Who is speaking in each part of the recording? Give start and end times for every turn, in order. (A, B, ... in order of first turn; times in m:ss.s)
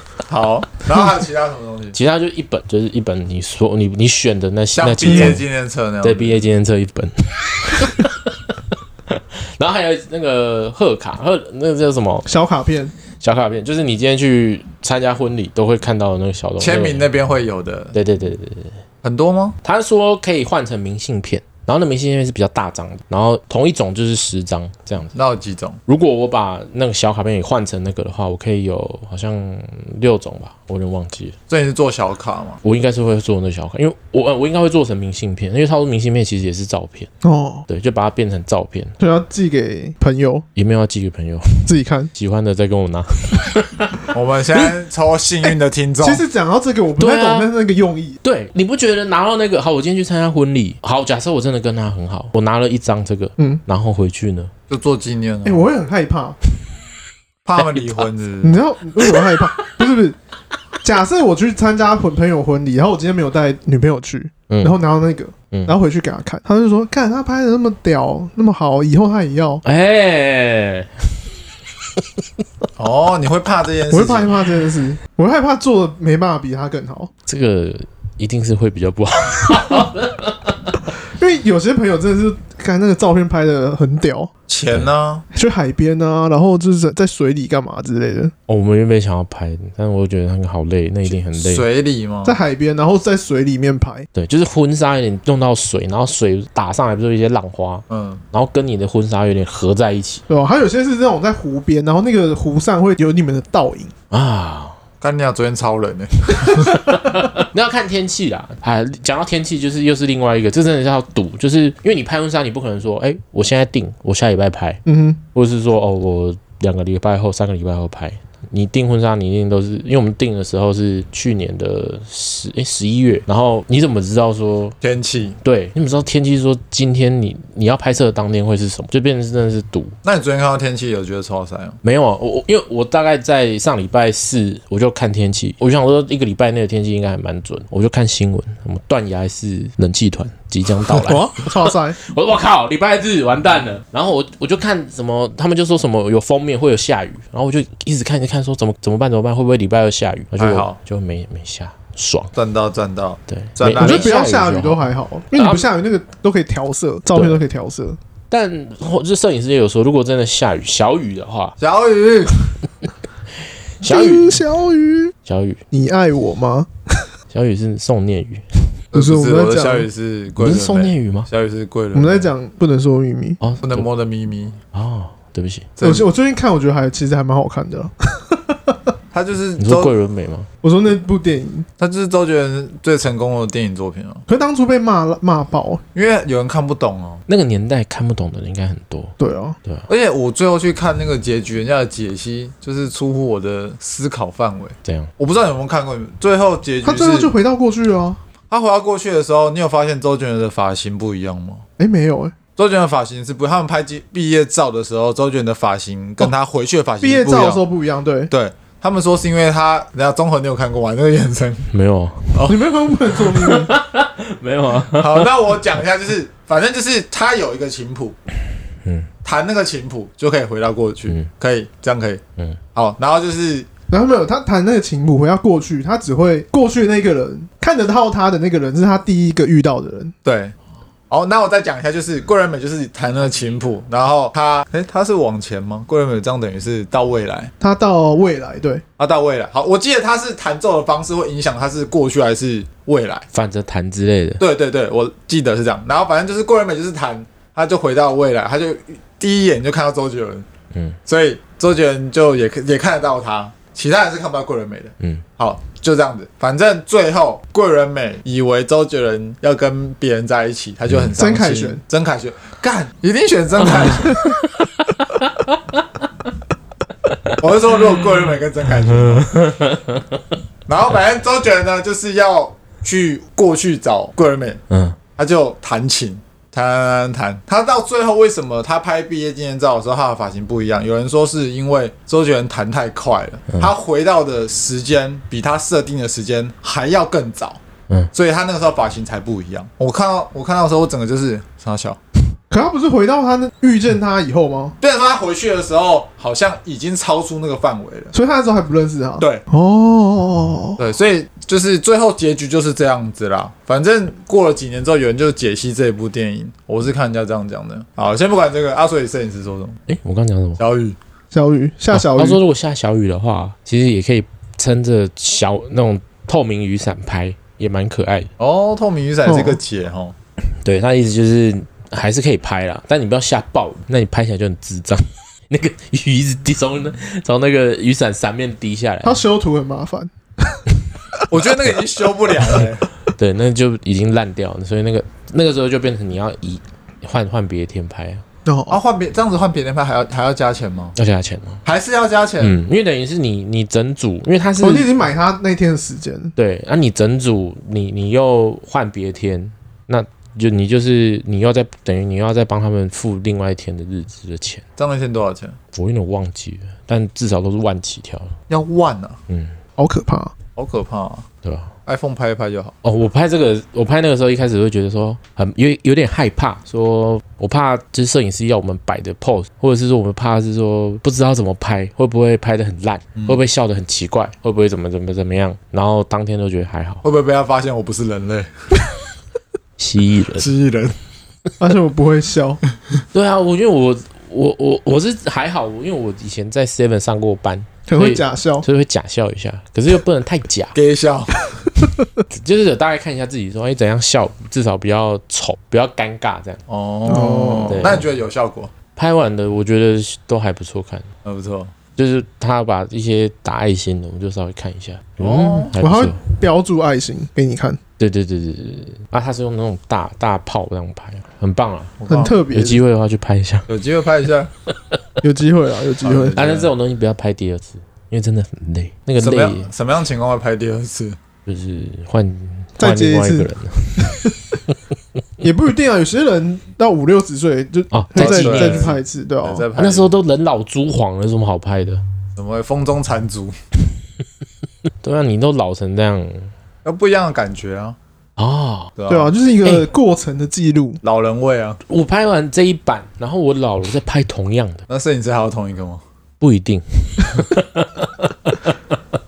0:00.3-0:02.0 A
0:01.9-0:05.4 B
0:04.8-0:06.4 A
0:05.0-0:05.4 C
0:06.0-0:12.3 B
0:12.2-0:12.9 C
0:13.2-0:17.1 B
0:16.6-0:18.0 A
0:17.9-0:18.8 B
0:19.0-0:19.6 A
0:19.6-0:25.2 B
0:25.1-0:25.8 A
0:25.9-0:31.4 B
0:31.5-0:32.6 A
0:32.6-0:37.1 B
0:37.2-0:37.6 C
0:37.7-0:39.0 B
0:39.0-0:40.4 C
0:40.5-0:44.1 B
0:41.6-0:42.1 C
0:44.1-0:46.2 A
0:46.0-0:48.2 C
0:47.0-0:47.5 B
0:48.2-0:54.5 B
0:54.7-0:55.7 A
0:55.4-0:56.4 C
0:57.4-0:58.6 A
0:58.4-1:00.2 C
0:59.1-0:59.6 B
1:00.8-1:09.6 C
1:04.5-1:04.8 B
1:05.5-1:05.8 B
1:09.6-1:11.1 B
1:12.8-1:14.4 A
1:13.9-1:17.1 C
1:17.3-1:20.7 B
1:21.1-1:24.3 C
1:24.5-1:25.2 A
1:25.3-1:28.3 C
1:28.5-1:31.6 B
1:31.1-1:32.4 A
1:32.2-1:34.1 C
1:34.1-1:40.2 B
1:37.9-1:38.2 A
1:40.3-1:43.9 C
1:44.1-1:44.8 B
1:45.0-1:46.8 A
1:46.7-1:54.8 B
1:54.8-1:55.2 C
1:55.3-2:04.8 B
2:04.8-2:05.4 A
2:05.4-2:09.9 B
2:10.0-2:11.8 A
2:11.8-2:32.3 B
2:21.0-2:22.0 C
2:30.3-2:30.8 A
2:32.3-2:34.1 A
2:33.3-2:35.7 B
2:33.8-2:38.0 C
2:37.1-2:37.4 B
2:38.3-2:41.6 B
2:41.6-2:42.5 A
2:43.8-2:44.4 B
2:43.8-2:45.1 C
2:45.2-2:45.6 B
2:45.7-2:47.1 C
2:47.3-2:48.7 B
2:48.9-2:52.3 A
2:48.9-2:49.9 C
2:50.4-2:51.3 B
2:51.9-2:53.4 C
2:53.4-2:53.8 B
2:53.6-2:54.6 A
2:54.7-2:55.7 B
2:55.8-2:56.1 A
2:55.8-2:58.8 C
2:59.1-2:59.9 A
2:59.6-3:00.5 B
3:00.6-3:01.7 C
3:01.8-3:04.2 A
3:04.3-3:05.8 C
3:05.9-3:07.2 A
3:07.3-3:09.9 B
3:09.2-3:09.6 C
3:09.9-3:17.3 A
3:14.8-3:15.1 B
3:16.8-3:18.2 C
3:18.5-3:21.6 A
3:21.8-3:22.4 C
3:22.6-3:27.6 A
3:27.0-3:28.3 C
3:28.3-3:31.7 A
3:31.7-3:32.4 B
3:32.3-3:32.6 A
3:32.4-3:33.7 C
3:33.3-3:35.3 B
3:34.9-3:38.2 A
3:38.8-3:39.1 B
3:39.2-3:42.2 A
3:42.7-3:43.7 A
3:43.9-3:50.1 C
3:50.2-3:50.5 A
3:51.1-3:57.5 A
3:57.6-3:58.8 C
3:59.0-4:03.3 A
4:03.3-4:04.4 B
4:04.4-4:10.4 A
4:10.7-4:11.0 B
4:11.1-4:24.3 A
4:15.0-4:15.2 B
4:21.2-4:21.8 C
4:24.2-4:25.5 B
4:27.1-4:27.3 B
4:27.4-4:29.3 A
4:28.9-4:30.2 B
4:30.7-4:34.6 A
4:34.7-4:35.0 B
4:35.2-4:47.6 A
4:48.1-4:52.0 A
4:52.5-4:54.7 C
4:54.8-4:58.1 A
4:58.1-5:00.8 C
4:59.2-4:59.4 A
5:00.8-5:09.8 A
5:09.9-5:10.6 B
5:10.6-5:11.0 A
5:11.3-5:12.4 C
5:11.9-5:18.3 B
5:18.4-5:20.1 A
5:19.2-5:19.6 C
5:20.6-5:29.2 B
5:29.0-5:30.6 C
5:31.3-5:32.8 A
5:33.1-5:38.2 B
5:38.4-5:38.8 C
5:38.7-5:40.9 A
5:41.0-5:41.6 B
5:41.6-5:42.6 A
5:42.4-5:44.9 B
5:44.6-5:46.3 C
5:46.4-5:54.6 B
5:54.8-5:55.6 A
5:55.7-5:58.3 B
5:58.5-5:59.2 A
5:59.3-5:59.6 B
5:59.8-6:00.3 C
6:00.6-6:01.2 A
6:01.4-6:01.7 B
6:01.8-6:02.7 A
6:02.8-6:17.0 B
6:17.0-6:18.5 A
6:19.8-6:20.5 B
6:20.4-6:21.0 A
6:21.6-6:22.6 C
6:23.1-6:30.8 B
6:27.9-6:28.6 C
6:30.7-6:31.4 A
6:32.3-6:36.6 B
6:36.7-6:38.7 A
6:37.1-6:37.9 C
6:37.6-6:38.1 B
6:39.0-6:41.1 B
6:41.2-6:41.7 A
6:42.0-6:46.2 B
6:45.2-6:45.7 A
6:45.8-6:47.8 C
6:48.0-6:51.9 B
6:52.0-6:52.4 A
6:52.1-6:52.8 C
6:52.5-6:53.7 B
6:53.7-6:54.5 A
6:55.2-6:56.4 C
6:56.0-6:56.7 A
6:56.3-6:59.7 B
6:59.2-7:01.2 A
7:01.4-7:04.7 B
7:02.8-7:03.5 C
7:04.0-7:04.3 C
7:05.4-7:09.6 C
7:07.9-7:08.9 B
7:08.2-7:10.1 A
7:09.8-7:12.0 B
7:12.4-7:13.6 A
7:15.0-7:16.5 B
7:16.8-7:18.0 A
7:18.4-7:18.9 B
7:19.0-7:19.3 A
7:19.1-7:21.0 C
7:21.0-7:21.8 A
7:21.9-7:24.8 B
7:24.9-7:26.0 A
7:26.4-7:28.8 B